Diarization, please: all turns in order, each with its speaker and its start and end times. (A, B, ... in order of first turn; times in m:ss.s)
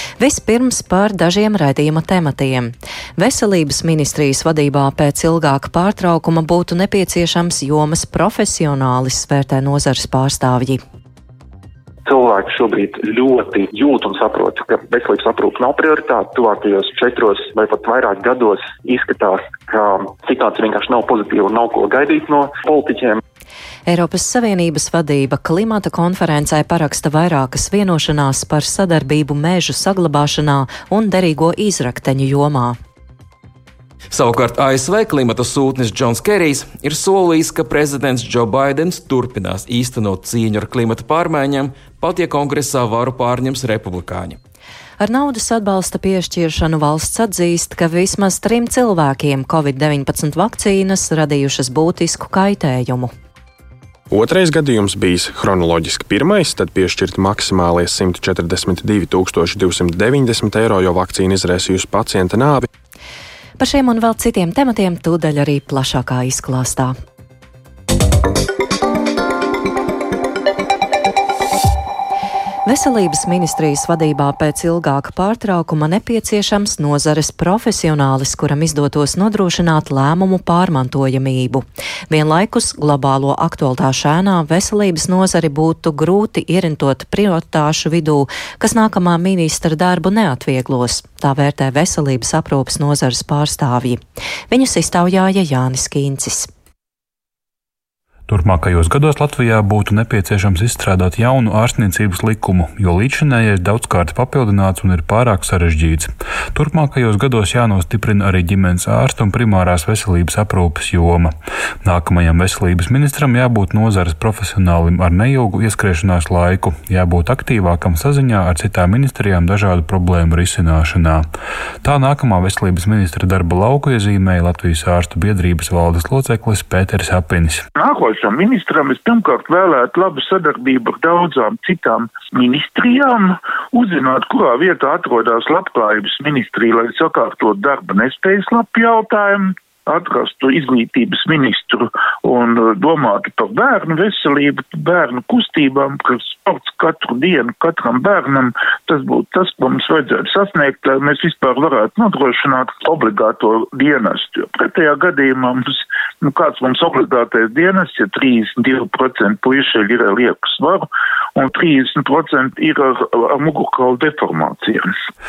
0:00.2-0:10.8 A
0:12.0-0:23.2 B
0:23.9-0:32.8 A
0:34.1-0:44.4 C
0:45.0-0:53.1 A
0:54.1-1:02.7 D
1:03.6-1:07.0 A
1:12.7-1:36.5 A
1:38.3-2:01.3 E
2:01.8-2:07.7 E
2:07.8-2:35.6 F
2:36.2-2:40.8 F
2:41.4-2:44.8 F